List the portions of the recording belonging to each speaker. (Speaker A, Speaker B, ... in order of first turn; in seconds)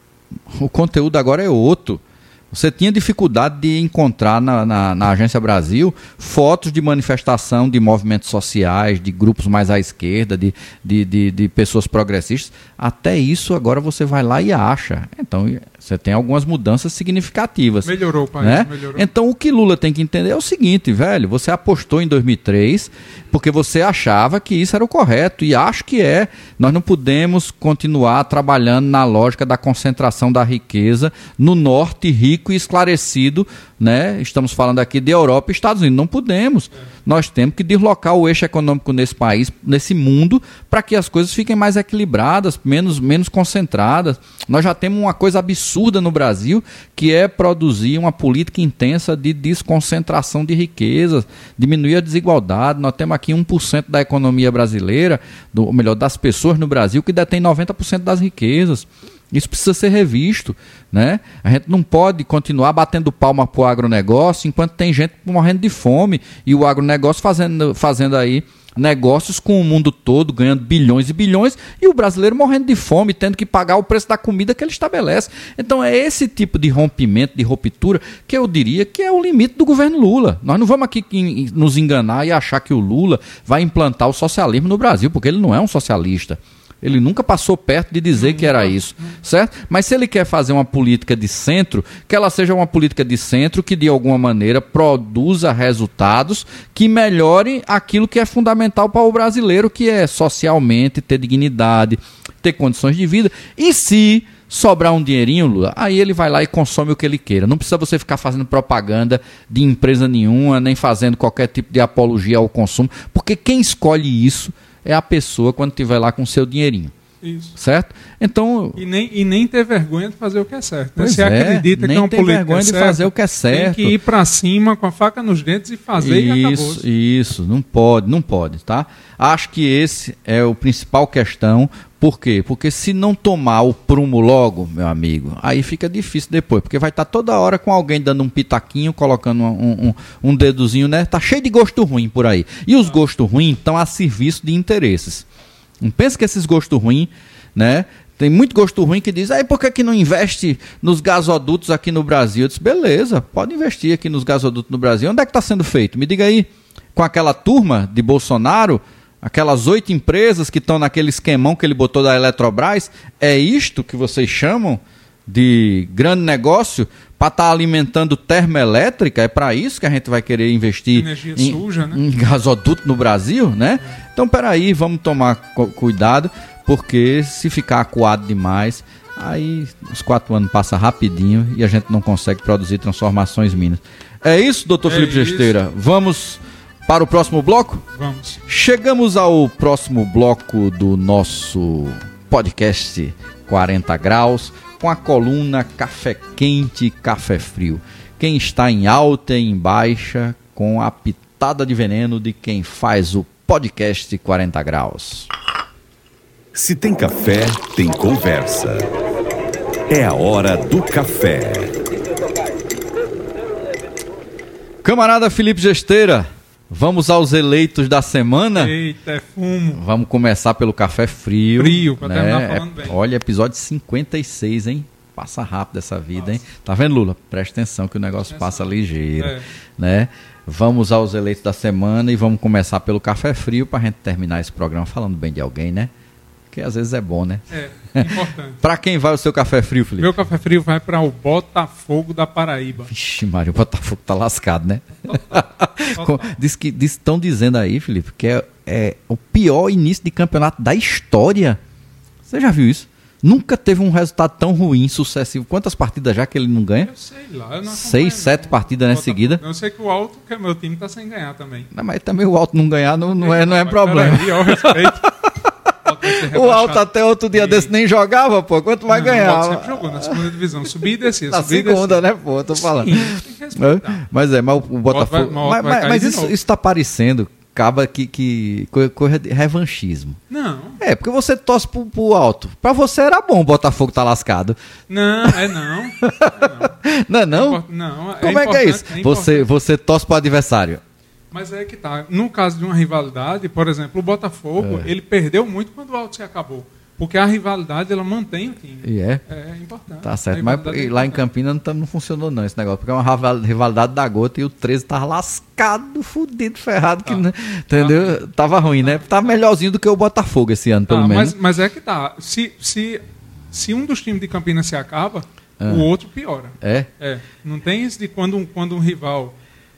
Speaker A: 0.5-116.9, 117.5-118.8, 121.0-123.9, 126.0-145.2, 145.8-187.8, 188.5-205.3, 214.8-218.7, 219.7-235.9, 236.5-237.4, 237.9-240.1, 242.9-251.6, 252.3-256.9, 257.7-259.4, 261.7-265.5, 266.0-270.2, 271.2-280.2, 280.8-284.6, 285.2-287.6, 288.2-290.8, 294.6-294.9, 298.8-299.2, 300.0-311.3, 315.6-315.9, 316.6-316.9
Speaker B: 17.8-19.1, 88.1-89.2, 117.2-117.5, 118.8-126.8, 170.9-172.0, 184.8-185.6, 187.9-188.4, 218.6-219.8, 221.6-222.9, 228.3-229.4, 237.5-238.6, 240.0-242.9, 245.1-246.4, 256.8-261.7, 263.2-265.1, 265.8-267.7, 268.9-274.1, 274.9-276.4, 280.3-280.8, 284.9-286.7, 287.3-289.5, 291.3-301.2, 307.0-309.4, 310.9-313.0, 313.5-319.4
Speaker C: 206.5-208.9, 209.9-211.8